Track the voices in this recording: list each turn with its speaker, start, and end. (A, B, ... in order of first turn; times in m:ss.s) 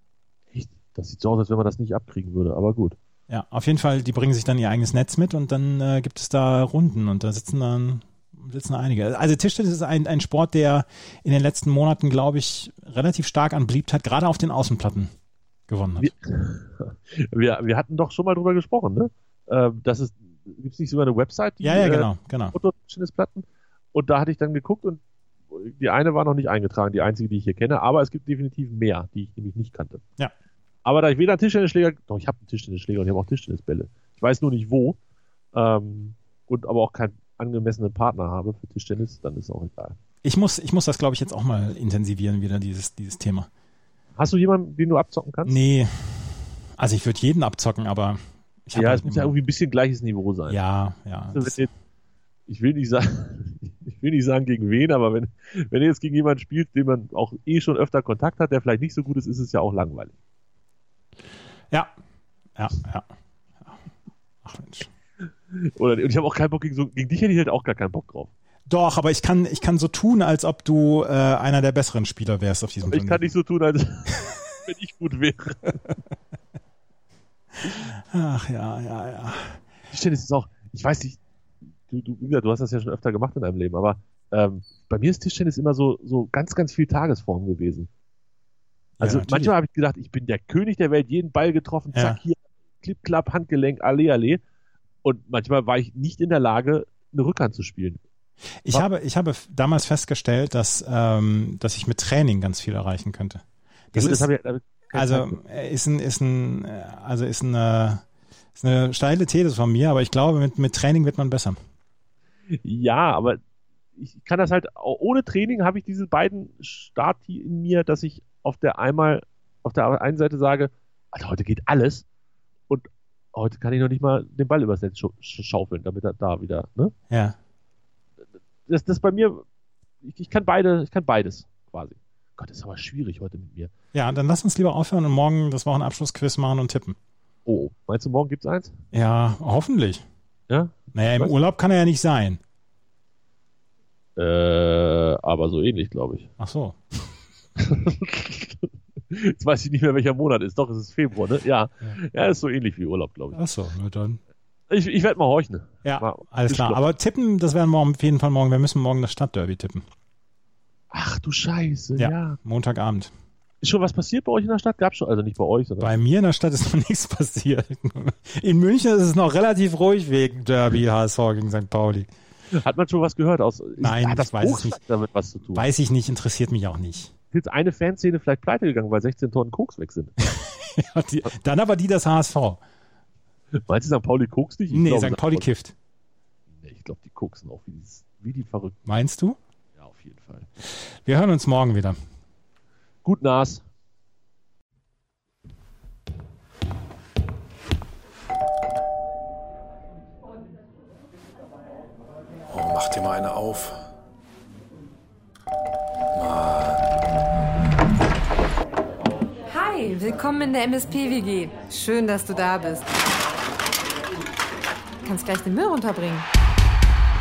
0:00.5-0:03.0 A
0:03.3-0:15.1 B
0:15.7-0:16.1 B
0:16.0-0:25.0 A
0:21.6-0:22.5 B
0:25.5-0:30.0 A
0:30.8-0:35.0 A
0:35.5-0:40.0 A
0:40.2-0:43.5 B
0:44.2-0:45.6 A
0:45.4-0:49.3 B
0:48.7-0:50.6 A
0:50.5-0:51.6 B
0:51.3-0:51.7 A
0:52.5-1:00.1 A
1:02.6-1:03.0 B
1:04.4-1:04.9 B
1:05.5-1:08.3 A
1:08.7-1:13.3 B
1:12.8-1:15.8 A
1:17.8-1:19.6 B
1:19.9-1:21.2 A
1:21.9-1:27.9 A
1:29.0-1:29.5 B
1:29.0-1:34.4 A
1:31.9-1:32.2 B
1:35.0-1:38.0 A
1:38.6-1:44.3 B
1:43.9-1:45.4 A
1:44.9-1:48.0 B
1:48.6-1:51.6 B
1:52.6-1:53.4 A
1:54.0-2:02.0 A
2:02.7-2:06.9 A
2:07.1-2:07.4 B
2:08.7-2:09.4 A
2:10.0-2:13.7 A
2:13.9-2:17.0 B
2:17.4-2:18.7 A
2:18.9-2:20.0 B
2:20.5-2:21.3 A
2:20.9-2:22.4 B
2:24.2-2:26.3 A
2:26.4-2:26.8 B
2:27.6-2:33.4 A
2:33.3-2:34.2 B
2:34.7-2:36.8 A
2:35.8-2:39.8 B
2:40.9-2:42.4 A
2:42.0-2:43.1 B
2:43.6-2:45.9 A
2:45.8-2:52.1 B
2:52.5-2:55.6 A
2:53.8-2:54.8 B
2:55.5-2:57.1 B
2:57.3-3:00.1 A
3:00.3-3:02.6 B
3:03.5-3:05.5 A
3:04.7-3:05.7 B
3:06.6-3:08.8 A
3:08.8-3:09.4 B
3:09.8-3:10.5 A
3:10.8-3:12.0 B
3:13.0-3:13.6 A
3:22.5-3:23.8 C
3:26.1-3:26.8 C
3:29.5-3:33.0 D
3:35.0-3:36.3 D